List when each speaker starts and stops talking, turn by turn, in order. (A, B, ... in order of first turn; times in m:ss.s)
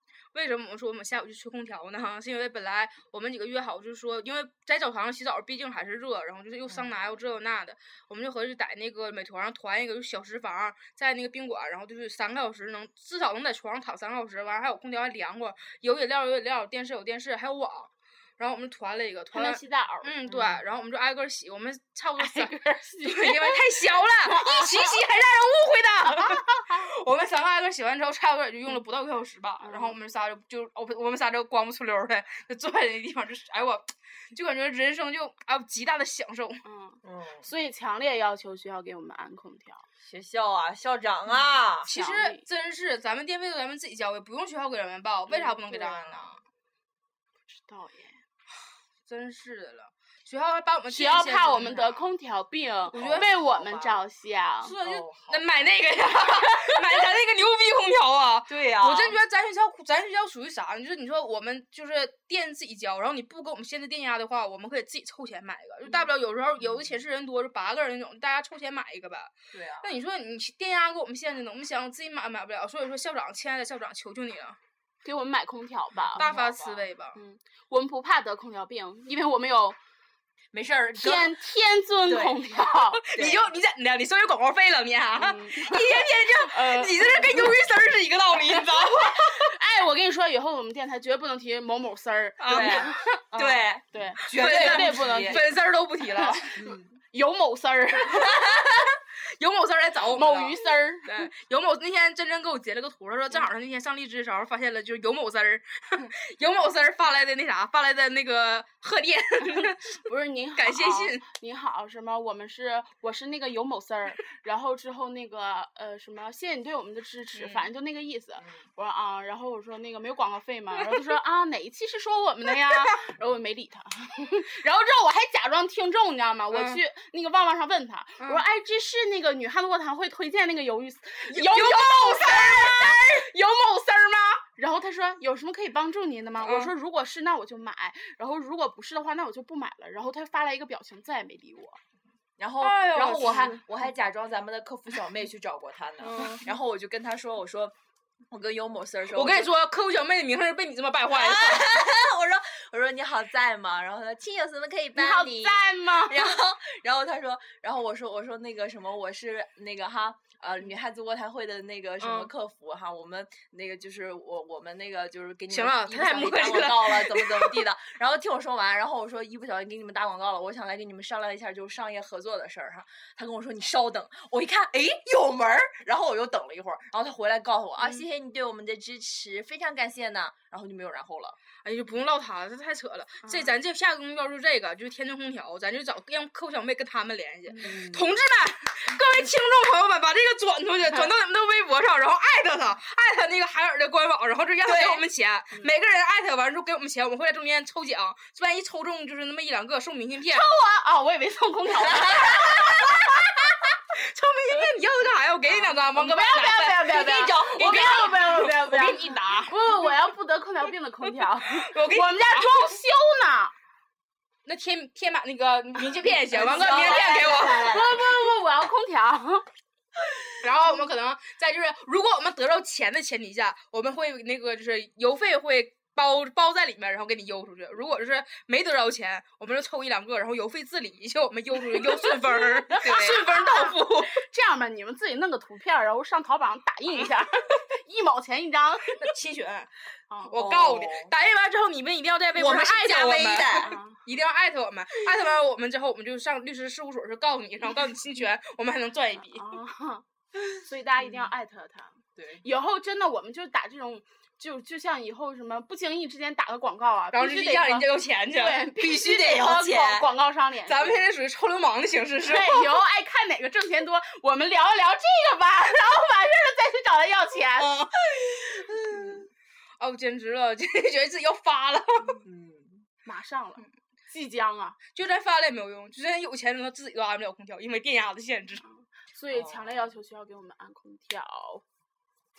0:00.3-0:36.6 A
0:19.3-0:20.1 B
0:20.2-0:20.6 C
0:22.2-0:25.0 B
0:26.1-0:26.9 B
0:29.6-0:30.0 B
0:36.6-0:39.8 B
0:37.0-0:37.5 C
0:40.0-0:42.0 C
0:41.8-0:46.4 A
0:41.9-0:42.4 B
0:45.3-0:46.3 B
0:47.5-0:48.2 B
0:49.1-0:52.1 A
0:50.9-0:54.7 B
0:52.9-0:53.3 A
0:52.9-0:54.0 C
0:54.6-1:14.6 A
0:54.8-0:55.4 C
0:58.5-0:59.2 C
1:06.6-1:06.9 C
1:09.5-1:09.9 C
1:15.0-1:16.2 B
1:16.1-1:16.9 C
1:16.2-1:17.2 A
1:17.1-1:19.8 B
1:20.5-1:21.3 C
1:21.0-1:23.0 B
1:22.1-1:22.5 C
1:23.1-1:29.5 A
1:23.1-1:23.4 C
1:25.2-1:27.6 B
1:28.4-1:35.6 B
1:32.4-1:33.0 A
1:32.5-1:35.5 C
1:34.3-1:36.5 A
1:36.1-1:38.8 B
1:36.5-1:36.9 C
1:38.2-1:49.8 A
1:40.1-1:41.3 B
1:49.4-2:21.8 B
1:50.6-1:51.2 A
1:57.3-1:57.7 A
2:06.5-2:06.8 A
2:11.3-2:13.2 A
2:16.4-2:16.7 A
2:22.4-2:27.7 C
2:22.6-2:23.6 A
2:23.2-2:23.5 B
2:26.0-2:26.4 A
2:28.3-2:29.5 C
2:29.1-2:31.8 A
2:31.1-3:01.4 C
2:34.9-2:36.4 B
2:42.0-2:42.3 A
2:45.5-2:47.6 A
3:01.6-3:20.4 A
3:03.2-3:03.5 B
3:07.6-3:08.2 C
3:14.6-3:15.0 C
3:20.3-3:23.5 B
3:21.8-3:22.9 C
3:23.9-3:29.7 A
3:25.4-3:33.5 B
3:26.7-3:28.5 C
3:31.6-3:32.7 A
3:34.4-3:37.8 A
3:36.3-3:38.0 C
3:36.3-3:39.4 B
3:40.4-3:54.2 A
3:51.7-3:59.1 B
3:52.8-3:53.2 C
3:58.9-3:59.7 A
4:00.1-4:00.4 B
4:00.3-4:09.5 A
4:00.3-4:01.1 C
4:02.3-4:03.7 C
4:03.6-4:04.0 B
4:09.3-4:21.0 B
4:12.2-4:12.4 C
4:17.1-4:18.6 A
4:18.8-4:20.1 C
4:20.7-4:22.7 A
4:22.2-4:27.7 B
4:27.6-4:29.2 A
4:28.5-4:29.2 C
4:29.8-4:32.2 A
4:32.2-4:32.8 C
4:33.0-4:34.8 B
4:34.9-4:38.6 A
4:38.6-4:41.6 B
4:39.3-4:39.8 C